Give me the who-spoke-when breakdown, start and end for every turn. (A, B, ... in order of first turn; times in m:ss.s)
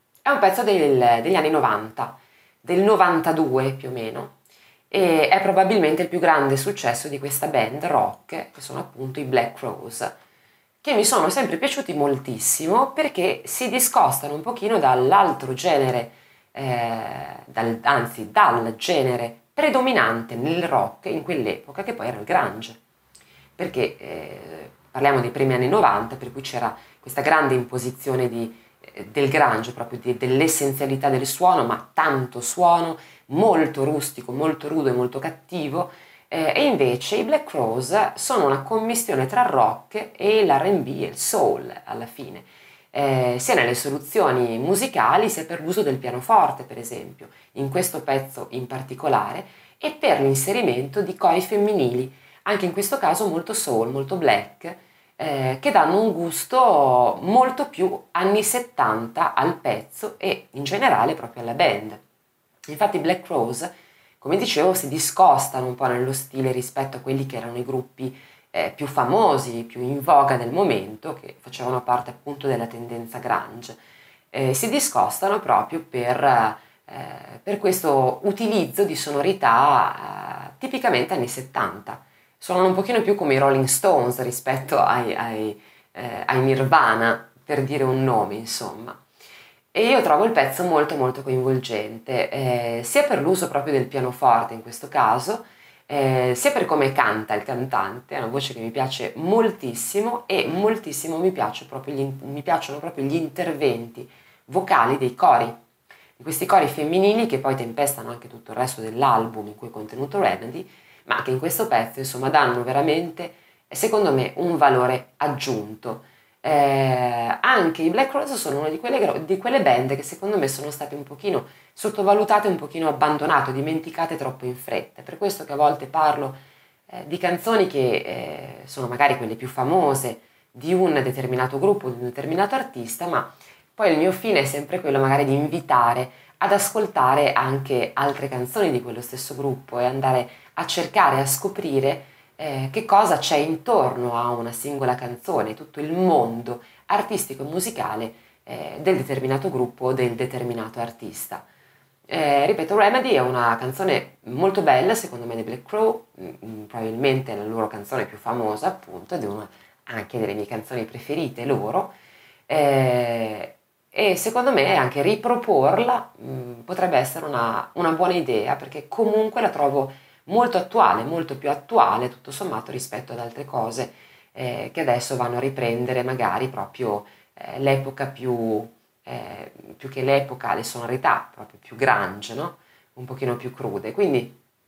0:00.2-0:04.4 A
0:04.9-0:10.1 A
0:10.8-0:22.8 A
0:23.6-1:02.0 A
1:02.7-1:13.8 A
1:14.3-1:29.0 A
1:29.7-1:45.6 A
1:46.2-2:31.4 A
2:32.1-2:42.0 A
2:42.5-3:04.4 A